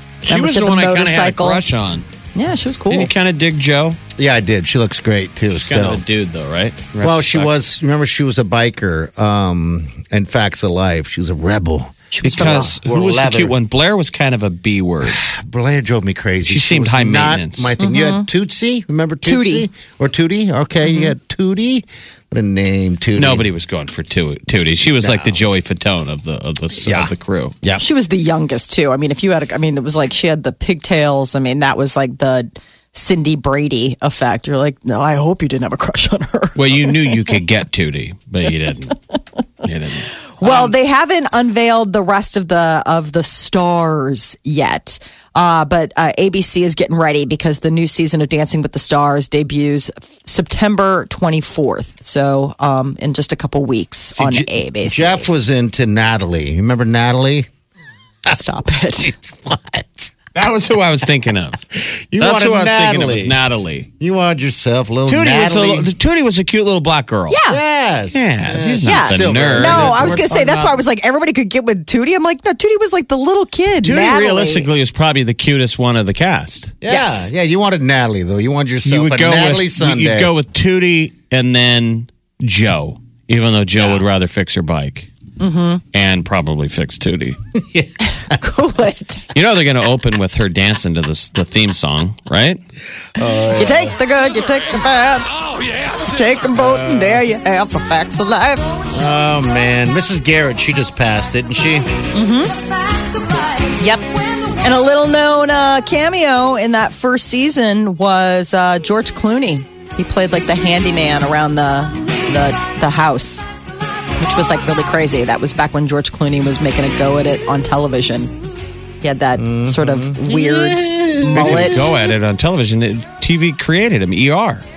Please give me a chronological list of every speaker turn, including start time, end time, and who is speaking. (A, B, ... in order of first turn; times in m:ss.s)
0:00.2-0:01.6 A
0:00.2-0:02.0 B
0:02.3-0:03.1 A
0:02.9-0:04.0 B
0:04.2-0:06.0 C
0:05.6-0:07.5 B
0:07.0-0:13.5 C
0:12.1-0:12.7 A
0:12.2-0:15.2 B
0:15.0-0:23.5 C
0:16.4-0:17.7 B
0:17.8-0:18.3 A
0:19.2-0:19.6 A
0:20.8-0:21.1 A
0:23.2-0:27.5 B
0:25.0-0:25.4 C
0:26.8-0:27.1 C
0:27.8-0:37.3 A
0:36.6-0:39.0 B
0:39.6-0:40.7 B
0:40.4-0:55.3 A
0:54.1-0:57.5 C
0:58.3-0:59.1 A
0:59.3-1:00.1 C
1:00.3-1:01.6 B
1:02.1-1:03.4 C
1:02.2-1:03.9 B
1:04.0-1:05.9 C
1:05.1-1:07.4 B
1:07.3-1:07.6 A
1:07.5-1:10.8 C
1:08.1-1:10.2 B
1:08.8-1:14.7 A
1:13.8-1:16.8 B
1:16.8-1:20.3 C
1:16.9-1:17.3 A
1:18.8-1:25.1 B
1:23.8-1:24.0 C
1:25.4-1:25.8 A
1:25.9-1:27.4 B
1:27.6-1:28.4 C
1:28.0-1:29.3 A
1:29.3-1:32.6 B
1:33.2-1:34.0 C
1:33.5-1:35.3 A
1:35.9-1:38.7 A
1:36.5-1:37.2 C
1:38.9-1:41.9 C
1:42.1-1:42.5 A
1:43.7-1:53.4 A
1:54.2-1:58.3 A
1:59.0-2:01.9 A
1:59.4-2:01.9 C
2:01.3-2:04.6 B